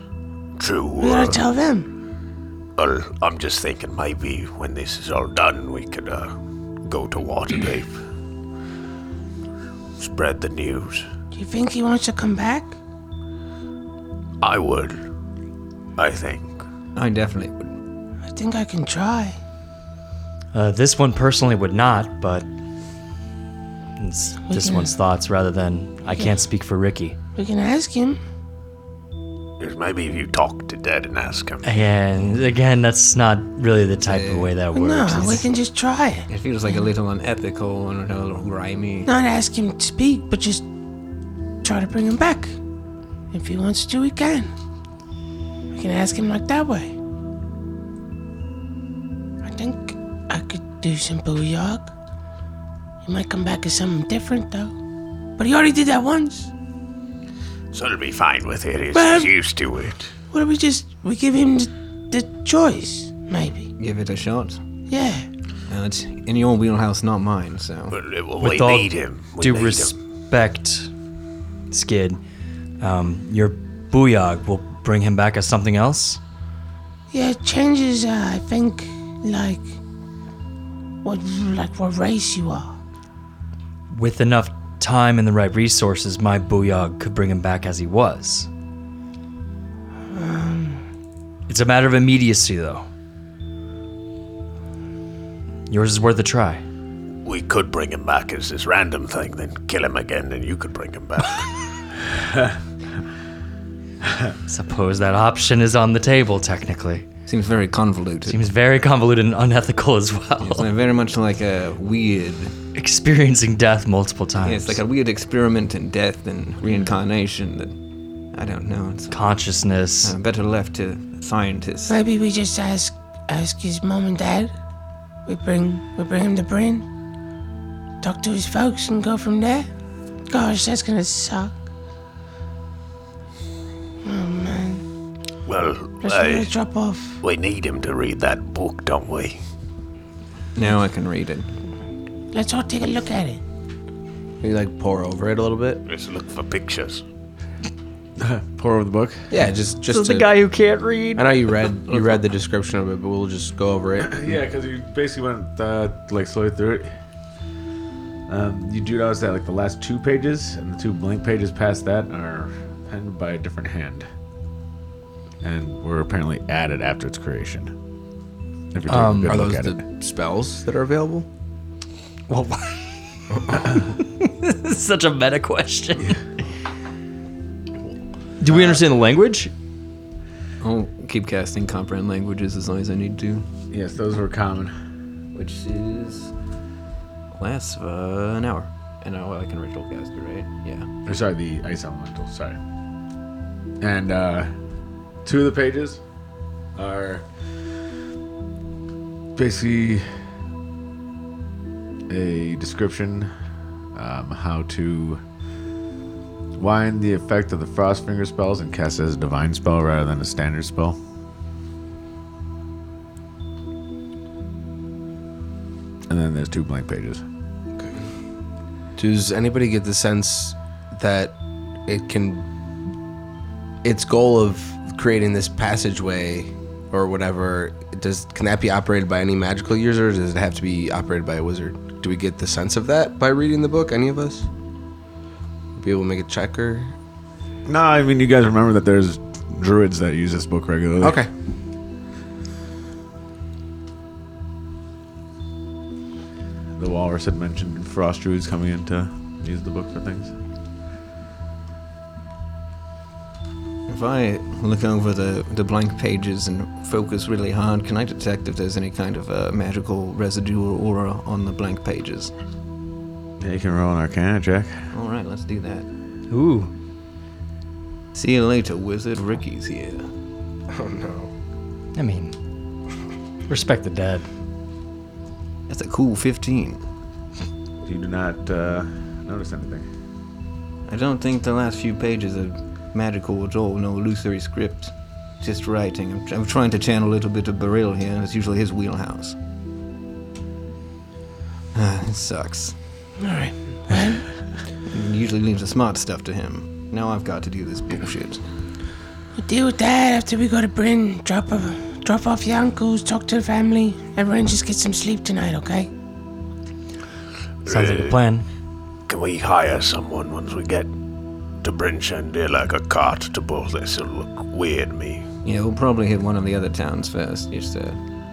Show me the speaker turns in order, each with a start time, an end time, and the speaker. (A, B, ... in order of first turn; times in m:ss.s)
0:00.6-0:01.4 A
0:01.0-0:01.9 B
0:02.8-0:08.0 A
0:10.0-0:11.1 A
0:11.4-0:12.8 B
0:14.4-0:15.0 A
0:16.0-0:16.6 A
0:17.0-0:17.7 C
0:18.3-0:19.4 B
0:20.5-0:22.5 D
0:24.0-0:27.2 D
0:24.5-0:25.0 B
0:27.4-0:28.2 B
0:29.6-0:31.8 A
0:31.6-0:35.4 D
0:34.1-0:34.5 C
0:34.7-0:36.9 B
0:36.3-0:39.1 C
0:39.1-0:40.6 B
0:41.6-0:42.6 B
0:43.3-0:44.5 B
0:45.7-0:46.9 B
0:49.4-0:51.9 B
0:53.0-0:54.7 B
0:55.4-0:56.5 B
0:57.7-1:00.1 A
0:58.9-0:59.3 B
1:00.3-1:03.7 B
1:03.8-1:04.6 C
1:04.9-1:05.3 B
1:05.7-1:08.0 C
1:07.9-1:09.9 A
1:08.4-1:10.9 D
1:11.7-1:12.2 D
1:12.8-1:16.2 D
1:17.1-1:19.7 B
1:21.0-1:22.8 B
1:23.9-1:28.5 D
1:30.1-1:30.8 B
1:31.5-1:32.9 D
1:35.7-1:36.6 D
1:37.2-1:41.5 A
1:44.5-1:47.1 D
1:47.3-1:48.4 C
1:48.3-1:50.7 D
1:50.4-1:52.5 C
1:52.8-1:54.8 D
1:54.4-1:57.8 C
1:58.3-1:59.3 C
1:59.1-2:00.2 D
2:00.0-2:02.0 C
2:01.9-2:04.5 B
2:05.3-2:06.8 B
2:08.0-2:09.7 B
2:10.3-2:11.6 B
2:14.0-2:14.8 B
2:15.5-2:16.5 A
2:16.0-2:17.2 B
2:17.2-2:19.4 A
2:20.6-2:21.5 C
2:22.3-2:23.4 B
2:24.4-2:25.8 E
2:25.9-2:27.0 A
2:28.2-2:29.3 F
2:29.3-2:30.3 E
2:29.9-2:31.4 D
2:31.2-2:34.4 E
2:31.9-2:32.3 C
2:34.0-2:36.9 F
2:38.3-2:44.1 F
2:45.4-2:47.7 F
2:48.7-2:49.8 F
2:48.9-2:49.4 D
2:49.3-2:51.3 E
2:52.3-2:52.8 D
2:54.0-2:56.2 D
2:58.4-2:59.5 D
3:00.6-3:03.5 C
3:03.7-3:04.7 F
3:05.3-3:06.3 C
3:07.4-3:10.9 C
3:11.1-3:12.6 F
3:13.8-3:14.5 F
3:15.2-3:16.0 F
3:16.8-3:17.3 F
3:19.4-3:20.1 F
3:22.1-3:23.3 F
3:24.0-3:25.2 F
3:26.6-3:31.0 F
3:36.1-3:37.2 F
3:39.0-3:41.3 E
3:41.9-3:42.5 E
3:43.8-3:54.5 E
3:55.8-3:56.9 E
3:57.7-4:01.2 F
4:01.0-4:01.3 E
4:06.8-4:10.3 F
4:13.9-4:22.3 C
4:23.4-4:24.9 F
4:24.9-4:25.9 C
4:26.3-4:26.7 D
4:28.2-4:30.1 C
4:30.7-4:31.3 E
4:32.0-4:32.4 D
4:33.5-4:34.2 D
4:35.7-4:36.8 C
4:37.8-4:39.9 F
4:40.9-4:49.4 C
4:51.7-4:52.8 C
4:53.2-4:54.3 B
4:54.9-4:58.4 C
4:59.4-5:05.9 B
5:07.7-5:08.2 A
5:07.7-5:08.5 D
5:09.1-5:10.9 A
5:11.6-5:15.3 A
5:15.4-5:18.0 C